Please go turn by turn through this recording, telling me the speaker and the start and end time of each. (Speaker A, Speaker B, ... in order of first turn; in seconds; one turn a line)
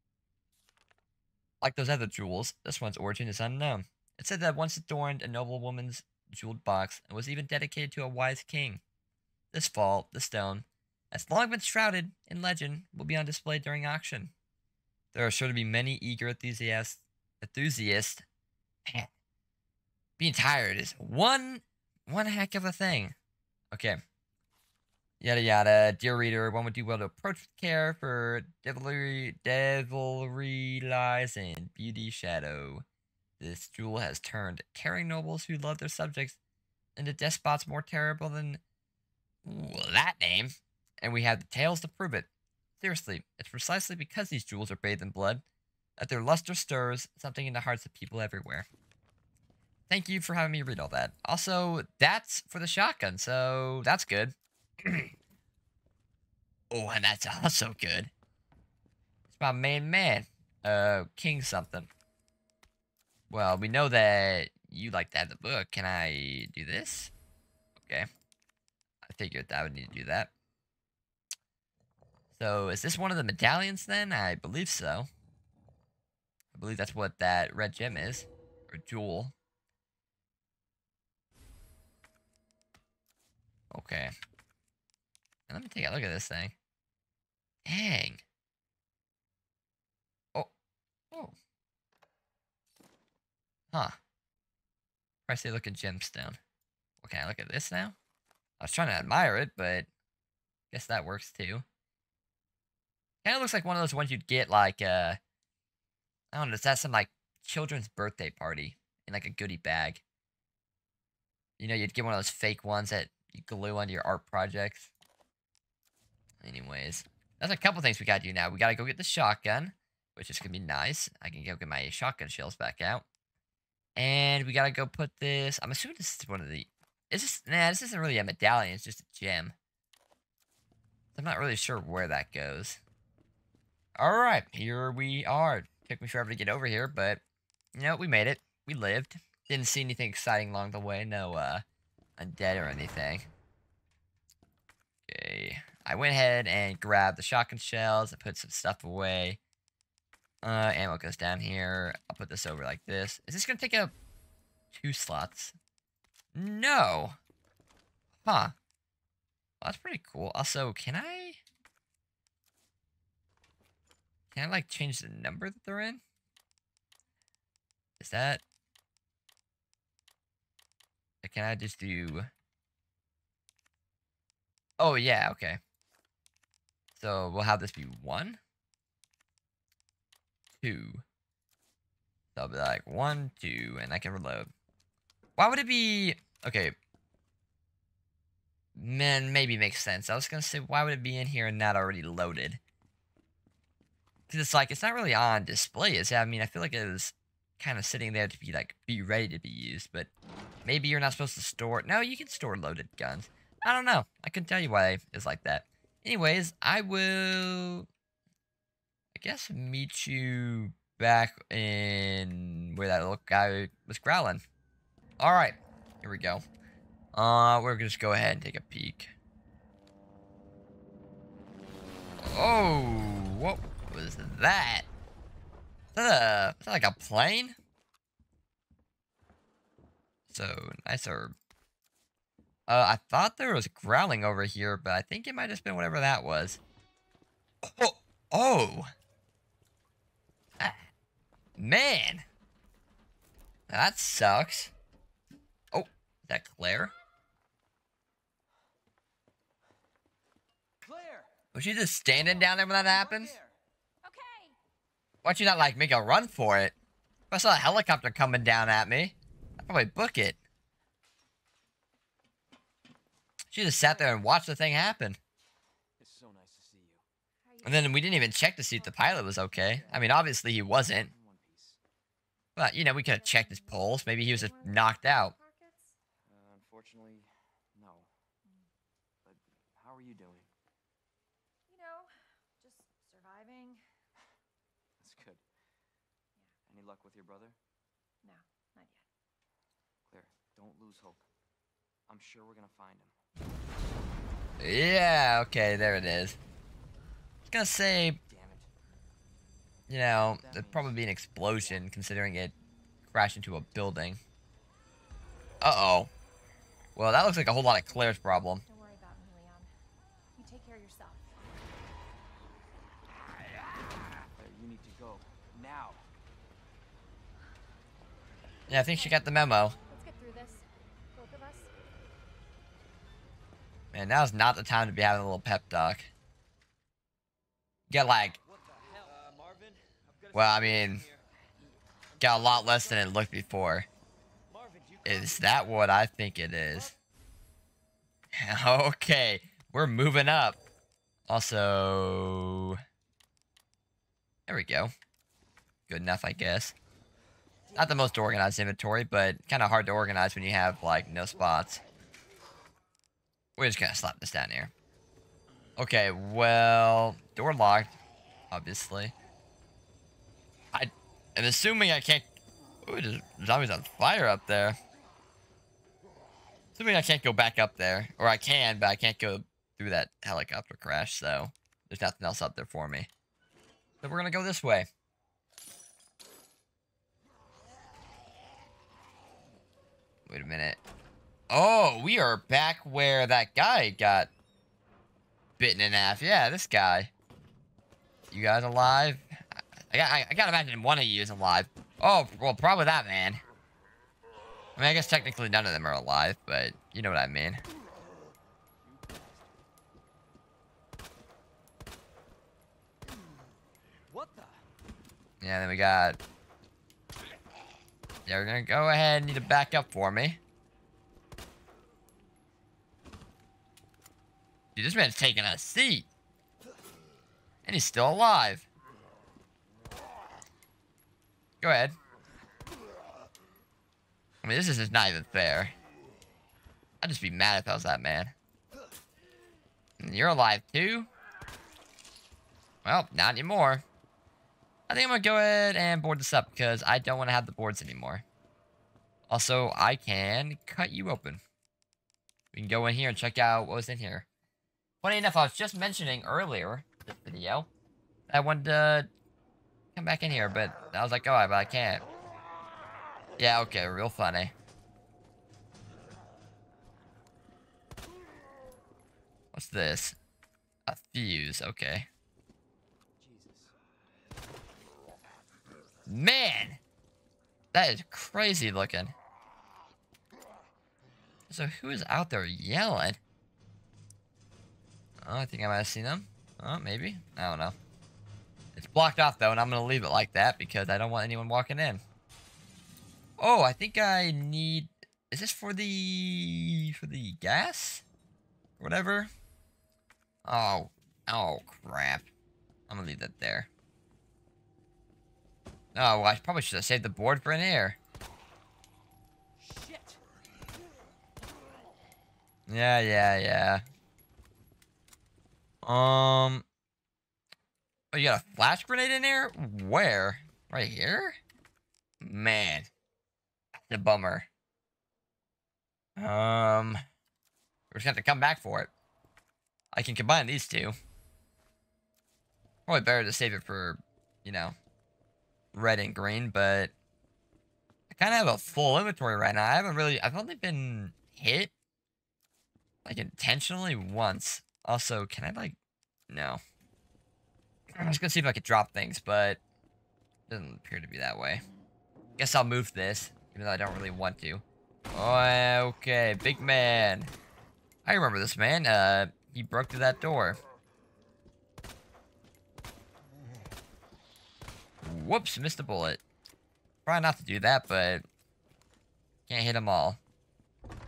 Speaker A: 1.6-8.8
Speaker A: 9.5-14.3
Speaker A: 15.1-18.2
Speaker A: 20.2-23.1
Speaker A: 23.7-24.0
Speaker A: 25.2-32.8
Speaker A: 33.4-36.4
Speaker A: 37.0-38.6
Speaker A: 39.4-42.3
Speaker A: 42.8-45.4
Speaker A: 46.0-48.6
Speaker A: 49.9-55.1
Speaker A: 56.7-58.1
Speaker A: 59.3-61.9
Speaker A: 63.3-67.1
Speaker A: 67.8-68.1
Speaker A: 69.0-70.3
Speaker A: 72.3-75.1
Speaker A: 76.5-79.3
Speaker A: 83.7-84.1
Speaker A: 85.5-86.5
Speaker A: 87.7-88.2
Speaker A: 93.7-94.0
Speaker A: 95.3-96.4
Speaker A: 97.0-98.0
Speaker A: 98.6-99.9
Speaker A: 100.7-101.6
Speaker A: 103.2-105.2
Speaker A: 106.3-110.0
Speaker A: 111.6-114.9
Speaker A: 116.4-123.0
Speaker A: 124.0-129.5
Speaker A: 131.1-132.8
Speaker A: 134.0-137.2
Speaker A: 137.7-141.6
Speaker A: 142.2-143.3
Speaker A: 145.1-149.4
Speaker A: 150.4-153.9
Speaker A: 154.7-155.5
Speaker A: 156.3-157.2
Speaker A: 158.2-158.5
Speaker A: 159.6-161.4
Speaker A: 164.3-166.0
Speaker A: 168.0-168.4
Speaker A: 171.2-172.3
Speaker A: 174.8-175.6
Speaker A: 176.9-178.4
Speaker A: 180.6-181.0
Speaker A: 182.3-184.5
Speaker A: 185.4-186.7
Speaker A: 188.8-192.6
Speaker A: 194.3-200.1
Speaker A: 200.6-207.9
Speaker A: 209.1-214.4
Speaker A: 215.2-216.4
Speaker A: 217.1-219.1
Speaker A: 222.2-224.9
Speaker A: 225.9-227.5
Speaker A: 230.3-231.3
Speaker A: 232.7-236.6
Speaker A: 237.6-238.9
Speaker A: 241.6-242.2
Speaker A: 243.7-244.7
Speaker A: 245.7-246.9
Speaker B: 250.8-251.4
Speaker A: 251.5-253.3
Speaker B: 252.1-253.6
Speaker C: 254.0-254.6
Speaker A: 255.2-256.8
Speaker A: 257.3-260.4
Speaker A: 263.5-265.2
Speaker C: 263.8-264.2
Speaker B: 266.0-267.0
Speaker C: 267.4-269.9
Speaker A: 267.6-271.1
Speaker B: 269.5-270.2
Speaker B: 271.0-271.8
Speaker A: 272.6-275.3
Speaker C: 272.9-276.0
Speaker B: 276.2-278.1
Speaker B: 279.2-280.5
Speaker C: 281.7-283.8
Speaker B: 285.0-285.4
Speaker B: 286.6-287.6
Speaker C: 288.2-289.0
Speaker B: 290.1-291.2
Speaker B: 292.1-293.1
Speaker A: 294.6-296.4
Speaker A: 297.5-298.2
Speaker B: 298.3-298.7
Speaker A: 299.9-302.5
Speaker B: 300.1-301.9
Speaker A: 303.1-304.2
Speaker A: 305.6-306.1
Speaker A: 306.9-308.6
Speaker C: 307.9-309.7
Speaker C: 310.4-311.4
Speaker B: 314.3-316.0
Speaker A: 318.7-319.8
Speaker C: 318.7-319.2
Speaker C: 319.9-321.7
Speaker A: 323.9-326.1
Speaker A: 327.9-328.4
Speaker B: 328.4-331.2
Speaker A: 330.3-331.1
Speaker B: 332.1-333.1
Speaker A: 332.2-333.9
Speaker B: 334.5-335.6
Speaker A: 335.0-336.9
Speaker A: 338.3-340.6
Speaker A: 341.3-342.8
Speaker A: 344.5-344.9
Speaker A: 345.9-346.8
Speaker A: 347.7-351.8
Speaker A: 353.6-354.7
Speaker A: 355.8-358.0
Speaker A: 358.5-359.1
Speaker A: 360.7-362.3
Speaker A: 362.8-364.8
Speaker A: 366.8-373.1
Speaker A: 374.0-374.9
Speaker A: 380.3-380.8
Speaker A: 381.5-384.3
Speaker A: 385.6-387.1
Speaker A: 388.3-393.4
Speaker A: 394.8-397.6
Speaker B: 398.8-399.6
Speaker B: 404.1-404.6
Speaker A: 405.4-406.2
Speaker A: 408.2-410.4
Speaker A: 414.8-416.1
Speaker A: 417.6-418.6
Speaker A: 421.6-422.0
Speaker A: 424.4-425.7
Speaker A: 427.0-428.3
Speaker A: 430.0-431.1
Speaker A: 432.8-433.8
Speaker A: 434.9-438.2
Speaker A: 439.3-441.4
Speaker A: 442.5-444.2
Speaker A: 445.0-447.7
Speaker A: 448.3-449.1
Speaker A: 449.9-452.0
Speaker A: 453.4-454.5
Speaker A: 459.5-460.1
Speaker A: 460.9-462.1
Speaker B: 463.2-463.7
Speaker A: 466.1-466.8
Speaker A: 467.7-469.1
Speaker A: 471.5-473.2
Speaker A: 475.2-477.8
Speaker A: 478.7-482.0
Speaker A: 483.4-488.0
Speaker A: 488.8-489.3
Speaker A: 490.4-492.3
Speaker A: 492.9-493.7
Speaker A: 495.9-498.0
Speaker B: 499.6-500.2
Speaker A: 502.7-503.8
Speaker A: 505.8-506.6
Speaker A: 508.1-511.4
Speaker A: 512.2-512.9
Speaker A: 513.9-514.5
Speaker A: 516.2-517.0
Speaker A: 517.9-518.9
Speaker A: 519.9-520.9
Speaker A: 522.9-524.8
Speaker A: 525.7-526.9
Speaker A: 528.1-531.7
Speaker A: 533.0-535.8
Speaker A: 536.3-536.6
Speaker A: 538.0-539.6
Speaker A: 540.5-541.6
Speaker A: 542.4-547.3
Speaker A: 548.0-550.6
Speaker A: 555.0-556.2
Speaker A: 557.0-558.2
Speaker A: 559.5-560.2